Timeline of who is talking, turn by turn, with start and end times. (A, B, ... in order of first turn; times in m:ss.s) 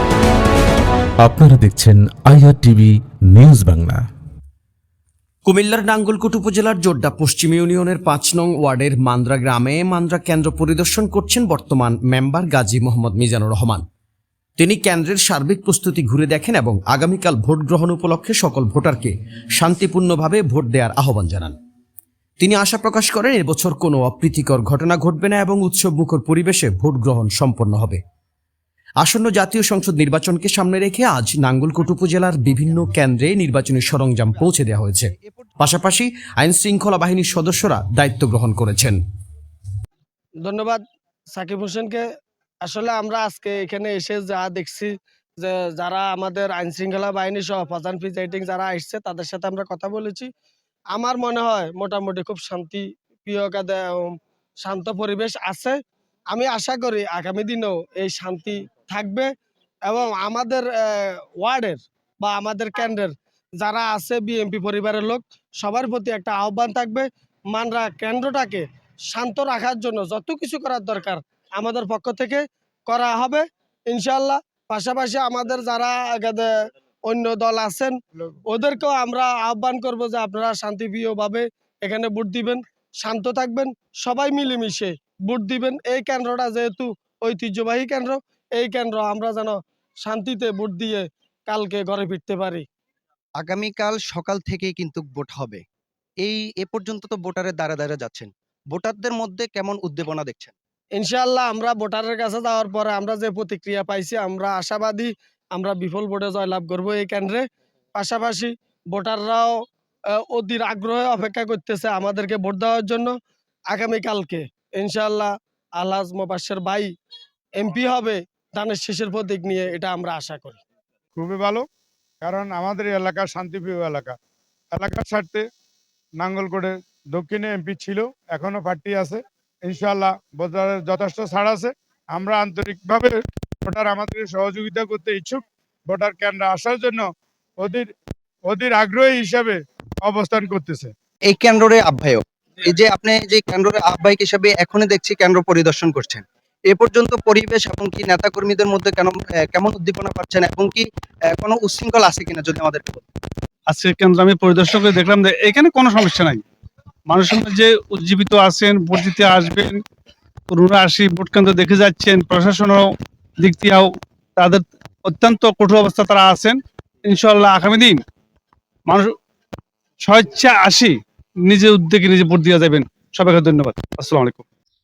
0:01.2-0:02.8 A
0:03.4-0:03.9 A
0:05.4-0:13.8 B
0:14.6-0:21.6 B
0:22.4-0:28.0 B
0:29.0-0:35.1 B
0:31.7-0:35.7 C
0:35.6-0:39.0 B
0:40.4-0:40.8 D
0:41.3-0:42.0 D
0:42.6-0:50.3 D
0:50.9-0:55.8 D
0:56.3-0:59.3 D
0:59.8-1:16.5 D
1:17.0-1:32.6 D
1:33.4-1:35.6 C
1:36.2-1:40.5 C
1:41.0-1:47.4 D
1:48.0-1:49.5 D
1:50.3-1:53.1 D
1:53.7-1:56.9 D
1:57.6-2:00.6 D
2:01.2-2:01.6 E
2:02.2-2:04.1 E
2:04.7-2:05.4 E
2:06.2-2:17.1 E
2:17.6-2:17.9 E
2:18.5-2:20.9 E
2:21.3-2:33.0 C
2:33.7-2:36.4 F
2:37.1-2:39.8 F
2:40.5-2:48.0 F
2:48.9-2:49.1 F
2:50.0-2:54.4 F